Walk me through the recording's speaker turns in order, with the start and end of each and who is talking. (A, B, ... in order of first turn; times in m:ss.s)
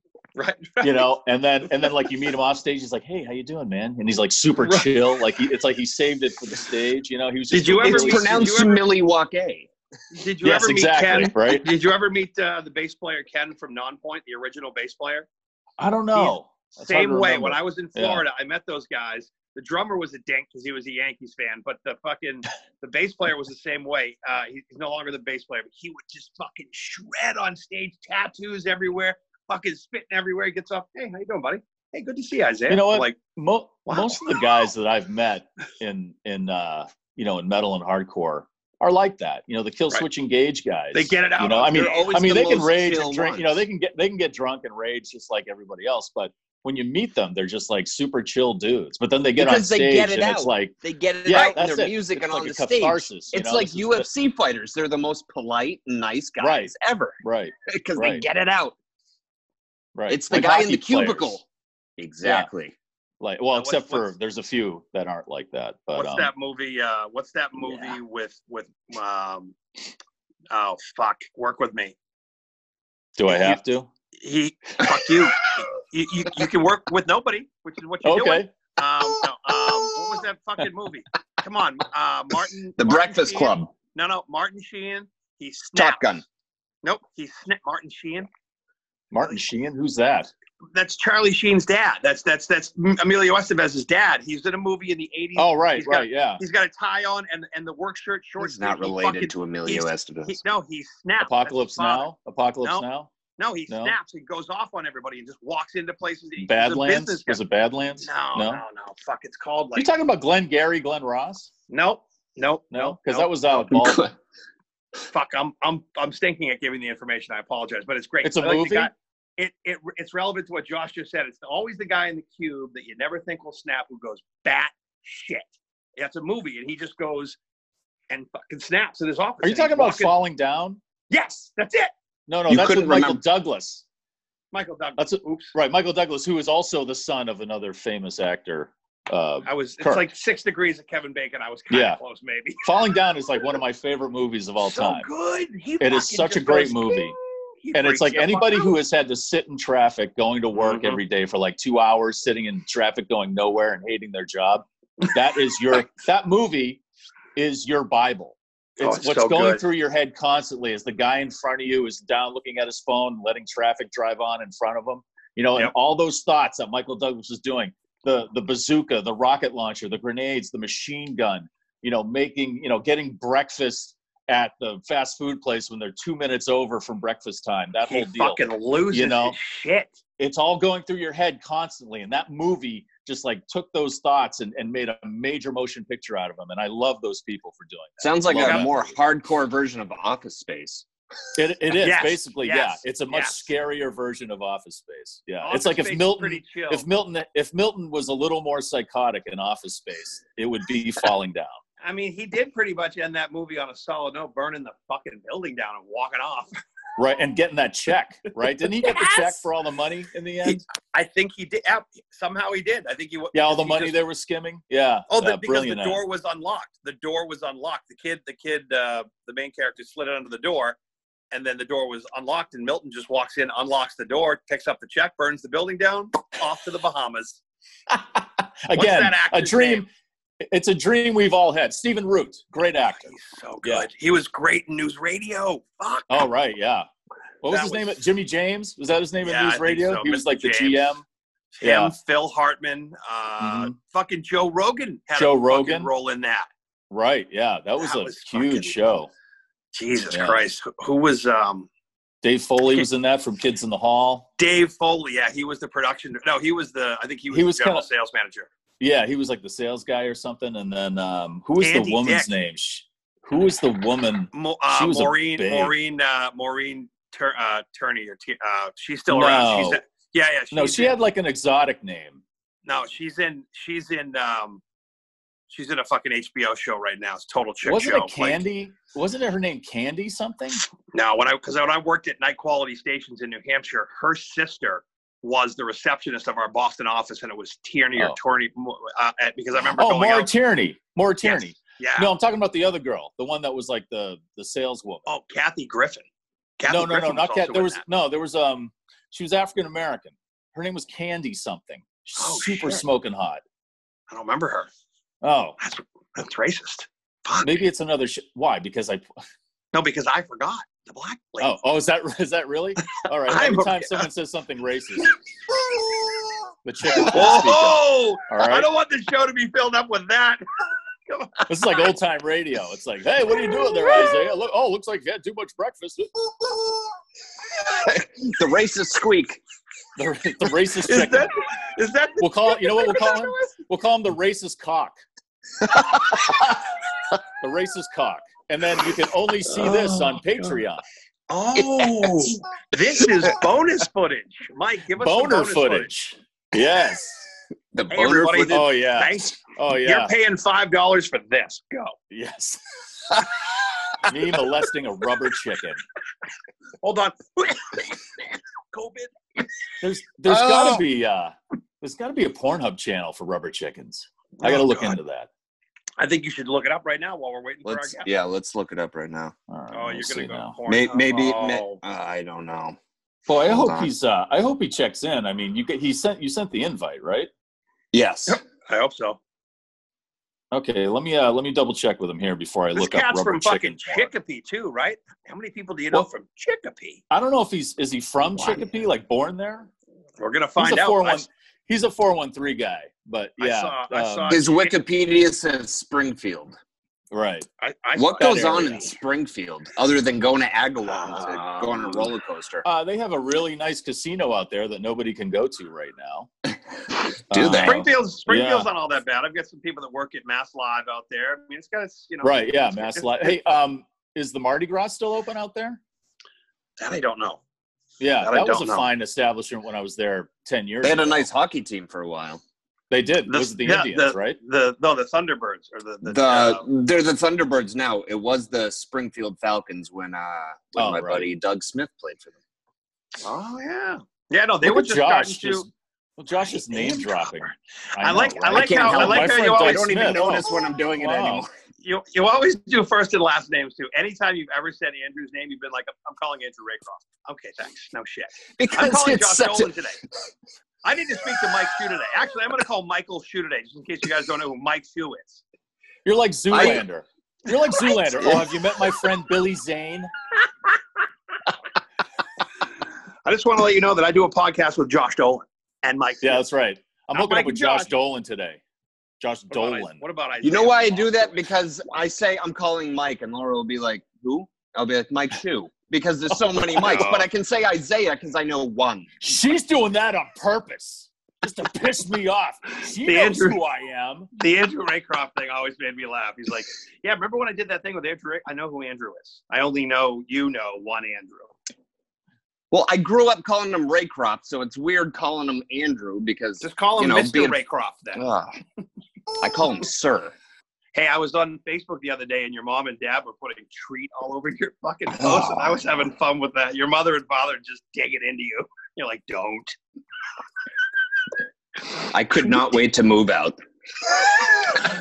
0:00.4-0:01.1 A
0:00.8-0:08.6 B
0:04.6-0:04.9 A
0:07.5-0:08.8 A
0:07.8-0:09.7 C
0:10.1-0:15.3 A
0:10.4-0:11.7 B
0:15.8-0:18.2 B
0:16.1-0:33.2 A
0:32.7-0:50.7 B
0:33.9-0:34.4 A
0:40.9-0:42.1 A
0:41.7-0:43.6 C
0:49.4-0:58.7 C
0:51.2-0:54.1 B
0:56.4-0:58.2 B
0:59.9-1:01.4 B
1:00.1-1:01.4 C
1:02.0-1:02.7 C
1:02.2-1:02.5 B
1:03.2-1:06.3 B
1:03.5-1:04.1 A
1:05.9-1:09.6 A
1:10.5-1:11.9 A
1:13.2-1:13.9 B
1:13.3-1:13.6 A
1:14.2-1:26.1 A
1:18.0-1:18.5 B
1:22.8-1:23.7 C
1:25.7-1:26.2 C
1:26.8-1:28.3 A
1:29.1-1:30.3 B
1:30.7-1:42.1 A
1:35.4-1:36.4 B
1:38.4-1:40.4 C
1:41.2-1:43.1 B
1:43.4-1:47.4 A
1:43.7-1:43.9 B
1:46.4-1:48.6 B
1:48.0-1:49.9 A
1:49.8-1:51.5 B
1:51.7-1:53.3 A
1:52.7-1:54.1 B
1:53.7-1:54.1 C
1:55.1-2:07.4 A
1:58.2-1:58.9 B
2:08.1-2:10.1 A
2:09.4-2:10.8 B
2:11.1-2:11.9 A
2:12.3-2:13.8 B
2:12.5-2:13.2 C
2:14.5-2:15.5 A
2:15.0-2:20.1 B
2:19.4-2:22.6 A
2:21.7-2:22.0 B
2:22.6-2:25.1 B
2:24.6-2:28.7 A
2:25.8-2:27.2 B
2:27.7-2:36.8 B
2:30.5-2:31.0 A
2:37.4-2:59.4 B
2:38.8-2:39.6 A
2:57.9-3:00.0 A
3:00.2-3:08.9 B
3:08.0-3:10.8 C
3:08.4-3:08.7 A
3:11.3-3:21.6 B
3:11.8-3:13.4 A
3:15.4-3:16.8 A
3:21.8-3:26.6 A
3:27.0-3:30.6 B
3:28.8-3:29.4 A
3:30.4-3:34.0 A
3:33.3-3:36.0 B
3:35.1-3:40.8 A
3:41.3-3:47.4 A
3:47.9-3:49.9 B
3:48.7-3:49.8 A
3:50.4-3:53.9 B
3:52.9-3:56.2 A
3:56.1-3:56.9 B
3:57.4-4:01.0 B
3:57.5-3:57.9 A
3:59.2-4:01.0 A
4:01.6-4:06.5 A
4:01.6-4:01.9 B
4:03.4-4:03.7 B
4:05.1-4:05.9 B
4:06.9-4:09.1 B
4:07.8-4:08.7 A
4:09.7-4:11.7 A
4:10.1-4:10.4 B
4:12.2-4:14.3 B
4:14.4-4:18.5 A
4:17.3-4:17.9 B
4:18.8-4:25.7 B
4:21.6-4:22.3 A
4:24.3-4:31.0 A
4:29.1-4:29.8 B
4:30.5-4:32.2 B
4:32.6-4:34.6 A
4:35.5-4:38.4 A
4:37.6-4:40.6 B
4:40.9-4:50.3 A
4:49.8-4:55.0 B
4:51.2-4:52.1 A
4:55.0-4:56.0 A
4:56.6-4:57.8 A
4:56.7-5:03.4 B
5:02.2-5:02.8 A
5:04.1-5:04.7 A
5:05.2-5:05.6 B
5:05.6-5:07.6 A
5:07.4-5:09.1 B
5:09.7-5:11.6 A
5:11.4-5:15.1 B
5:12.9-5:14.0 A
5:16.6-5:18.7 B
5:16.9-5:20.4 A
5:21.1-5:21.5 A
5:21.5-5:26.2 B
5:27.6-5:29.4 C
5:30.0-5:31.3 B
5:30.8-5:33.5 A
5:32.2-5:35.0 B
5:37.4-5:40.8 B
5:39.5-5:40.5 A
5:41.3-5:45.9 A
5:41.6-5:42.3 C
5:45.0-5:47.2 B
5:47.7-5:48.6 C
5:47.9-5:51.9 A
5:48.5-5:50.1 B
5:52.1-5:53.1 B
5:54.0-5:55.8 B
5:56.8-5:58.0 A
5:58.7-5:59.1 A
5:59.8-6:05.3 B
6:00.3-6:00.8 C
6:04.4-6:05.0 A
6:06.0-6:08.1 A
6:07.6-6:09.3 C
6:09.5-6:10.6 B
6:09.7-6:11.8 A
6:10.7-6:12.8 C
6:13.3-6:17.3 B
6:13.3-6:13.9 C
6:17.9-6:18.4 C
6:18.3-6:19.2 A
6:20.5-6:24.1 B
6:22.7-6:27.0 A
6:27.1-6:29.7 B
6:30.2-6:31.3 A
6:30.6-6:34.4 B
6:33.4-6:34.8 A
6:34.3-6:36.6 C
6:37.1-6:37.5 B
6:37.6-6:38.9 A
6:38.0-6:42.6 C
6:38.2-6:38.8 B
6:40.8-6:42.1 A
6:42.6-6:46.3 B
6:47.3-6:47.9 C
6:47.3-6:48.7 B
6:47.6-6:53.4 A
6:52.2-6:55.8 B
6:56.8-6:57.4 A
6:58.0-7:01.3 B
6:58.2-6:58.9 A
7:00.8-7:02.4 C
7:02.9-7:04.4 B
7:03.3-7:06.6 A
7:06.0-7:12.3 C
7:10.8-7:11.3 B
7:13.2-7:15.7 A
7:14.6-7:21.4 B
7:16.7-7:20.1 A
7:18.5-7:21.5 C
7:21.8-7:30.0 A
7:28.6-7:29.7 C
7:30.8-7:35.4 A
7:36.0-7:40.1 B
7:36.5-7:36.8 C
7:38.0-7:38.6 C
7:43.2-7:46.4 A
7:46.2-7:48.6 B
7:47.1-7:47.9 A
7:49.2-7:50.0 B
7:49.5-7:51.5 A
7:50.4-7:59.1 C
7:56.8-7:57.3 A
7:59.2-8:04.3 B
8:03.0-8:03.6 A
8:04.3-8:11.5 A
8:12.7-8:17.6 C
8:16.6-8:18.2 A
8:18.2-8:18.5 C
8:19.4-8:20.3 C
8:20.9-8:29.8 A
8:25.2-8:25.9 C
8:32.1-8:33.6 C